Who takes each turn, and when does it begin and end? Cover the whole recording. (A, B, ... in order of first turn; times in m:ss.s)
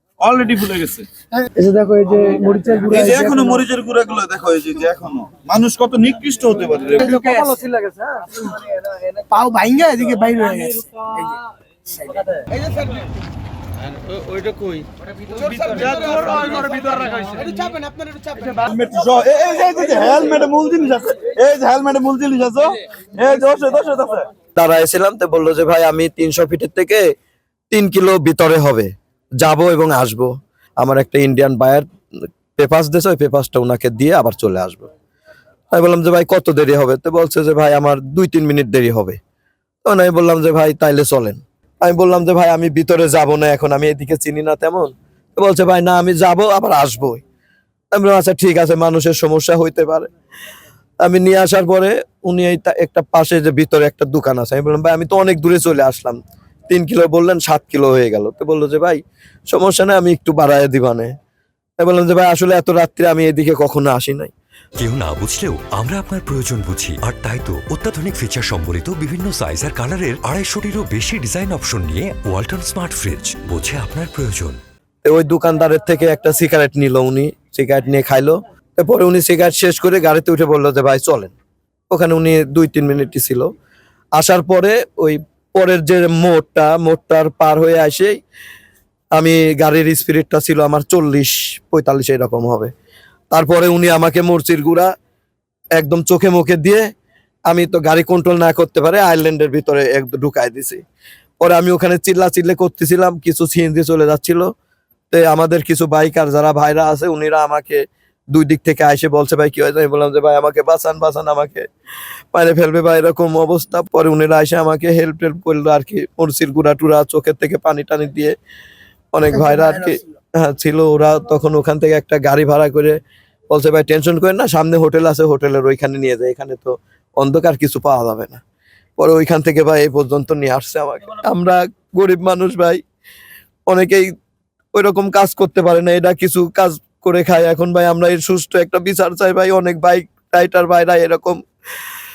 0:00.2-0:01.1 A
0:01.6-0:03.6 B
0:02.8-0:07.6 A
0:07.0-0:08.3 B
0:09.3-0:11.0 B
0:15.4-0:17.4 A
0:17.4-0:18.0 B
0:18.4-0:24.3 A
0:24.6-0:27.0 C
0:27.7-0:31.9 C
0:32.6-0:34.9 C
0:35.7-0:39.2 C
0:39.8-0:47.2 C
0:47.9-0:50.1 C
0:51.0-0:56.2 C
0:56.7-0:59.0 C
0:59.5-1:01.1 C
1:01.8-1:04.3 C
1:04.8-1:14.6 D
1:15.0-1:21.3 C
1:21.9-1:23.5 C
1:24.2-1:28.2 C
1:29.2-1:32.7 C
1:33.3-1:34.9 C
1:35.8-1:36.9 C
1:37.5-1:40.8 C
1:41.4-1:44.5 C
1:45.1-1:47.8 C
1:48.3-1:51.6 C
1:52.3-1:58.3 C
1:59.1-2:03.0 C
2:03.5-2:08.4 C
2:09.0-2:12.8 C
2:13.7-2:14.1 C
2:14.7-2:21.4 C